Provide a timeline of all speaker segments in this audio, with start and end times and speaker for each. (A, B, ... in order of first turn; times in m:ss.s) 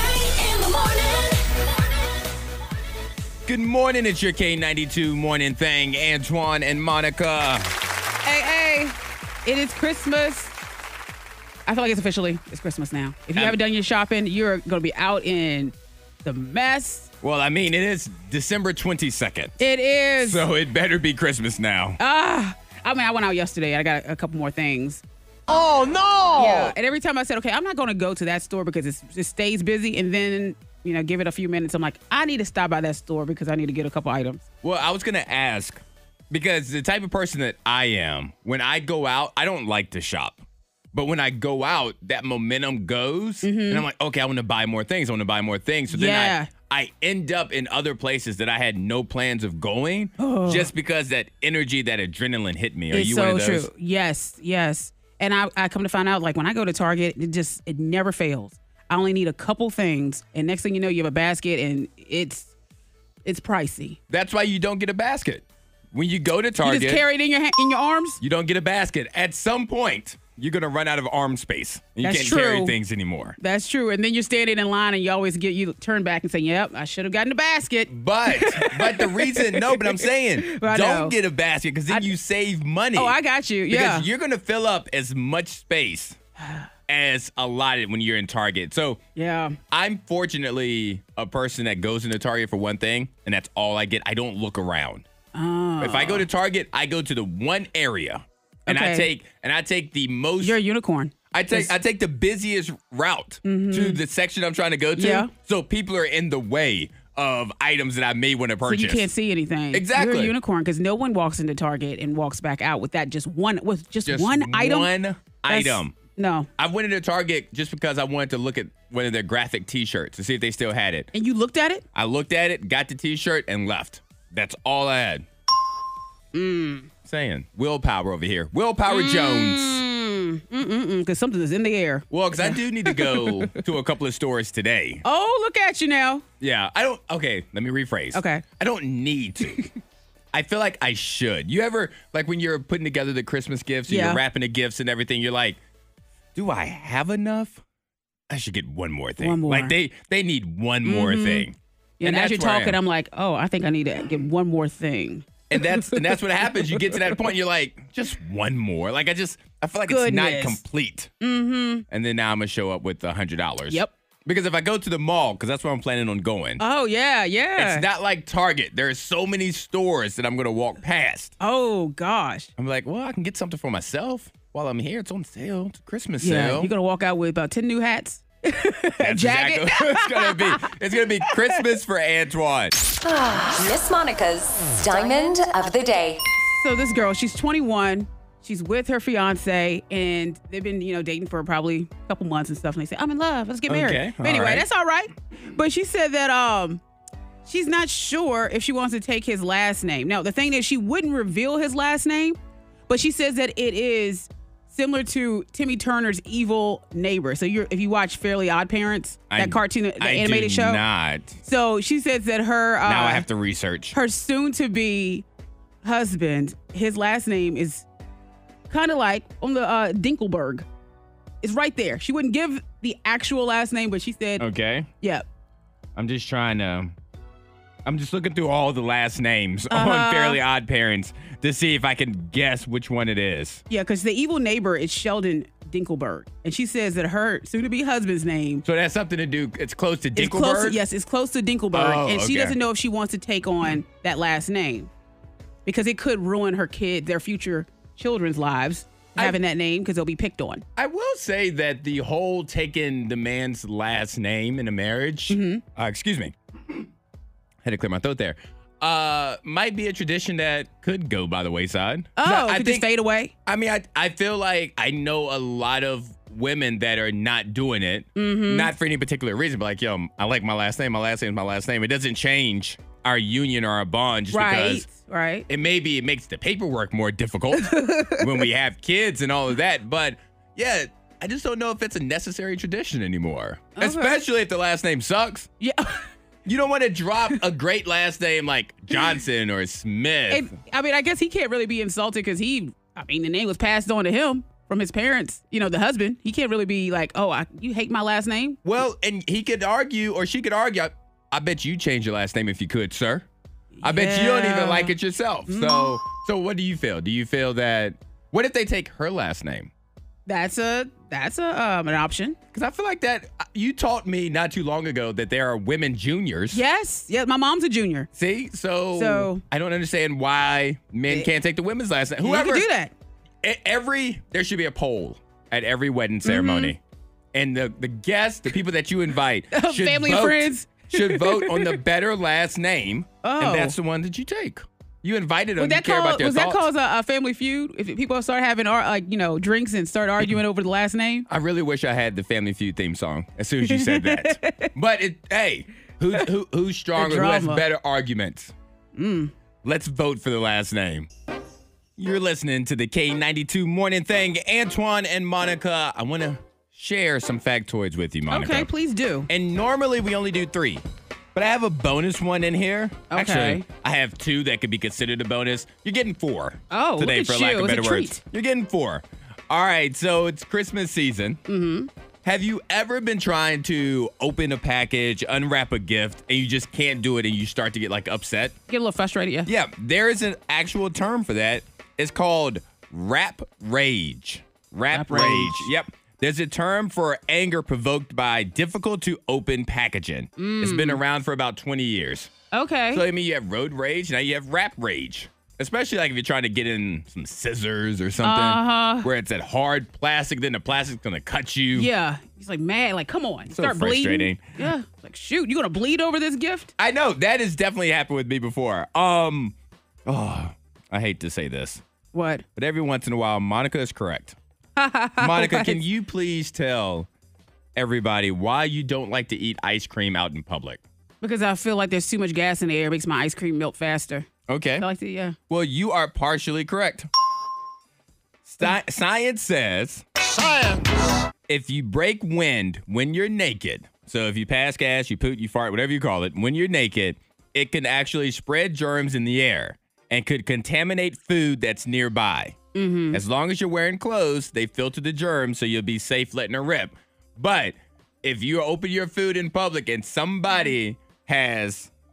0:03.5-0:07.7 A
0:08.2-0:10.5 B
0:11.7-0:17.1 B
0:13.3-0:13.6 A
0:17.2-0:19.6 A
0:19.6-0:20.4 B
0:20.2-0:22.0 A
0:22.0-0:25.0 B
0:25.5-0:26.8 A
0:26.4-0:34.4 B
0:34.6-0:40.4 A
0:40.9-0:53.7 A
0:43.4-0:43.8 B
0:45.9-0:46.5 B
0:50.2-0:50.7 B
0:52.9-1:02.5 B
1:03.2-1:04.0 B
1:04.1-1:07.0 A
1:06.6-1:08.2 B
1:08.2-1:13.4 A
1:12.0-1:12.8 B
1:13.4-1:21.2 B
1:17.9-1:26.2 A
1:23.0-1:24.1 B
1:26.4-1:26.7 B
1:26.9-1:29.0 A
1:29.2-1:29.6 B
1:29.7-1:35.1 A
1:35.3-1:36.3 B
1:35.8-1:40.6 A
1:38.7-1:39.1 B
1:40.4-1:41.7 B
1:41.3-1:49.1 A
1:43.4-1:44.0 B
1:45.0-1:45.3 B
1:48.6-1:54.9 B
1:49.7-1:50.4 A
1:54.0-1:55.9 A
1:55.5-1:56.5 B
1:56.6-2:01.1 A
2:01.1-2:01.8 B
2:01.9-2:05.3 A
2:06.3-2:06.9 B
2:07.0-2:09.8 A
2:08.9-2:13.6 B
2:12.1-2:15.0 A
2:15.0-2:16.2 B
2:16.4-2:19.7 A
2:18.1-2:18.4 B
2:20.3-2:25.6 A
2:23.9-2:24.2 B
2:26.4-2:27.6 A
2:28.3-2:32.8 A
2:29.2-2:29.7 B
2:30.8-2:31.5 B
2:32.0-2:36.0 B
2:35.5-2:41.1 A
2:39.9-2:40.6 B
2:41.2-2:41.8 B
2:41.9-2:46.6 A
2:46.6-2:47.8 B
2:47.6-2:51.4 A
2:51.4-2:52.5 B
2:52.6-2:56.7 A
2:56.2-3:00.7 B
2:59.0-3:02.8 A
3:01.2-3:01.6 B
3:03.0-3:06.2 C
3:06.5-3:16.8 B
3:13.7-3:14.7 A
3:17.5-3:22.4 B
3:22.9-3:30.8 B
3:29.3-3:31.4 A
3:31.4-3:33.3 B
3:32.8-3:34.0 A
3:33.9-3:35.2 B
3:35.8-3:37.9 B
3:38.7-3:40.7 B
3:41.4-3:44.4 B
3:44.4-3:44.9 A
3:46.0-3:47.0 A
3:47.8-3:53.6 A
3:49.7-3:50.4 B
3:53.7-3:58.6 B
3:58.6-4:00.8 A
4:00.2-4:04.9 B
4:01.7-4:02.6 A
4:05.6-4:10.6 B
4:10.8-4:16.8 A
4:15.3-4:15.6 B
4:17.6-4:22.9 A
4:22.2-4:23.3 B
4:23.5-4:34.9 A
4:28.2-4:28.7 B
4:34.3-4:35.5 B
4:35.5-4:45.5 A
4:37.6-4:38.4 B
4:43.8-4:44.2 B
4:45.6-4:46.0 B
4:46.4-4:50.5 A
4:50.3-4:58.6 B
4:58.6-5:03.3 A
5:03.8-5:05.0 B
5:03.8-5:09.7 A
5:05.5-5:06.0 B
5:10.3-5:12.4 B
5:12.5-5:16.6 A
5:16.5-5:18.1 B
5:18.1-5:22.7 A
5:19.0-5:19.4 B
5:22.2-5:22.9 B
5:23.4-5:26.8 A
5:26.2-5:26.7 B
5:27.3-5:36.7 A
5:29.5-5:31.8 B
5:33.2-5:33.8 B
5:35.6-5:41.3 B
5:41.3-5:48.5 A
5:43.6-5:44.7 B
5:47.0-5:47.6 B
5:49.0-5:49.3 B
5:49.6-5:51.1 A
5:52.0-5:58.7 A
5:58.3-5:59.3 B
5:59.3-6:00.8 A
6:01.4-6:11.4 A
6:03.1-6:03.6 B
6:06.7-6:08.2 B
6:11.5-6:11.9 B
6:12.2-6:18.6 A
6:18.7-6:19.5 B
6:19.5-6:32.3 A
6:24.9-6:25.7 B
6:30.4-6:31.0 B
6:32.5-6:33.0 B
6:32.9-6:41.9 A
6:38.2-6:39.1 B
6:41.7-6:46.7 B
6:43.5-6:44.6 A
6:46.8-6:51.8 A
6:52.1-6:52.4 B
6:52.6-6:54.4 A
6:54.8-6:55.8 B
6:55.2-6:57.1 A
6:57.8-7:00.8 A
7:01.2-7:04.3 B
7:04.5-7:04.9 A
7:04.8-7:05.4 B
7:05.5-7:07.1 A
7:08.4-7:10.0 A
7:11.5-7:22.6 A
7:22.7-7:23.2 B
7:23.1-7:31.9 A